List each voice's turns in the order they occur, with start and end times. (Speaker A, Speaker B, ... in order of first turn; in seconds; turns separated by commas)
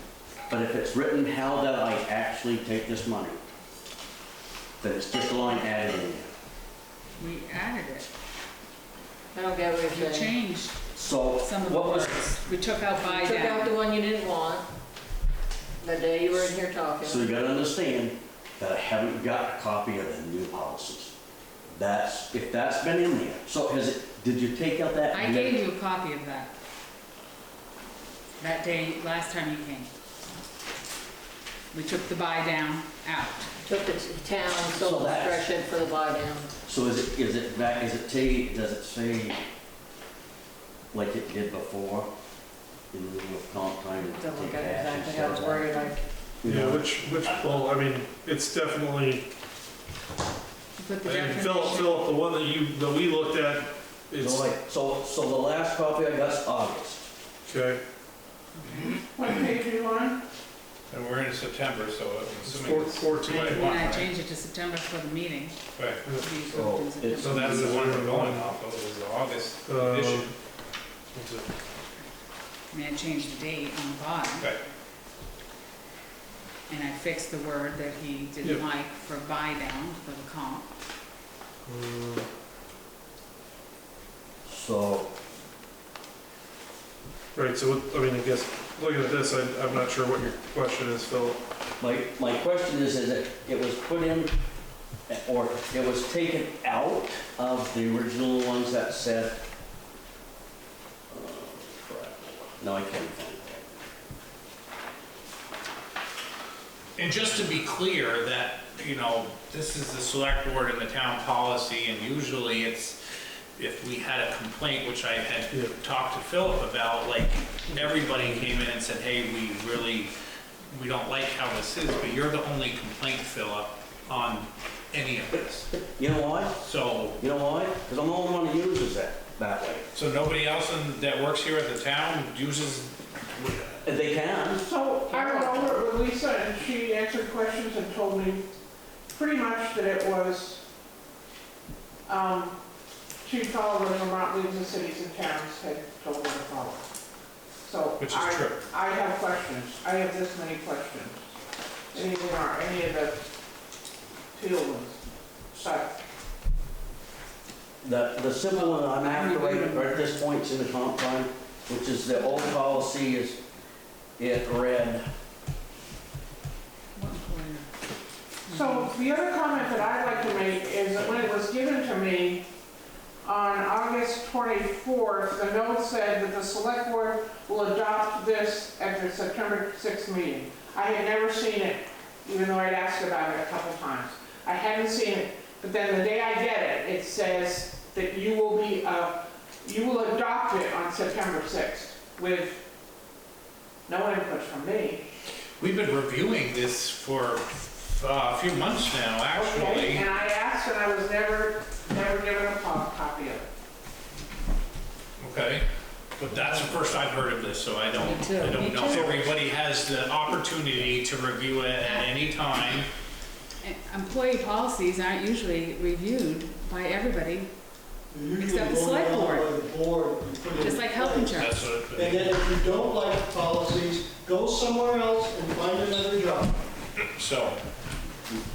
Speaker A: 0.5-3.4, Speaker A: 4.8-6.3, Speaker B: 7.2-8.1, Speaker C: 9.3-10.3, Speaker B: 9.9-10.8, Speaker A: 10.9-12.3, Speaker B: 11.4-13.7, Speaker C: 12.9-14.7, Speaker C: 15.8-17.4, Speaker A: 17.0-21.1, Speaker A: 21.7-25.6, Speaker B: 25.1-26.5, Speaker B: 28.4-29.9, Speaker B: 31.7-33.5, Speaker C: 33.6-36.5, Speaker A: 34.7-35.5, Speaker A: 36.6-39.4, Speaker A: 40.9-42.1, Speaker A: 42.9-45.7, Speaker C: 44.0-46.0, Speaker A: 46.4-47.6, Speaker D: 46.4-49.3, Speaker B: 50.8-52.1, Speaker D: 51.0-54.5, Speaker A: 54.2-57.0, Speaker D: 57.5-57.8, Speaker B: 58.6-59.0, Speaker E: 59.1-60.2, Speaker F: 60.9-64.1, Speaker D: 62.4-63.6, Speaker B: 63.3-65.6, Speaker F: 65.8-66.0, Speaker D: 66.0-66.6, Speaker B: 66.2-67.7, Speaker A: 66.5-67.6, Speaker D: 67.2-68.5, Speaker F: 67.3-70.3, Speaker D: 69.7-70.3, Speaker D: 71.1-71.5, Speaker B: 72.7-74.5, Speaker B: 76.7-80.7, Speaker D: 81.7-82.3, Speaker A: 84.5-85.1, Speaker D: 87.3-91.4, Speaker A: 91.8-94.3, Speaker A: 95.1-99.4, Speaker A: 101.1-103.7, Speaker F: 107.0-113.0, Speaker F: 113.6-120.1, Speaker D: 117.8-118.4, Speaker F: 120.7-125.7, Speaker A: 125.8-126.6, Speaker F: 126.6-127.2, Speaker A: 127.2-129.9, Speaker F: 129.9-133.8, Speaker A: 133.8-134.6, Speaker E: 134.6-138.5, Speaker C: 135.1-135.9, Speaker E: 139.1-140.6, Speaker E: 142.1-142.6, Speaker E: 143.2-146.9, Speaker E: 147.6-151.3, Speaker F: 148.0-148.6, Speaker E: 151.9-153.2, Speaker E: 154.3-155.0, Speaker E: 155.5-155.9, Speaker A: 157.8-163.4, Speaker B: 158.5-160.1, Speaker A: 164.2-165.1, Speaker B: 166.9-167.7, Speaker B: 168.5-169.0, Speaker E: 168.5-172.5, Speaker B: 169.5-170.4, Speaker E: 173.2-192.6, Speaker E: 193.9-195.1, Speaker F: 195.6-200.1, Speaker E: 199.3-203.5, Speaker F: 205.2-205.7, Speaker F: 206.2-212.9, Speaker B: 208.0-209.0, Speaker D: 208.9-209.4, Speaker B: 211.8-212.1, Speaker B: 213.6-217.5, Speaker G: 218.1-226.6, Speaker B: 218.4-219.5, Speaker B: 220.6-221.5, Speaker F: 221.3-222.4, Speaker F: 227.0-227.6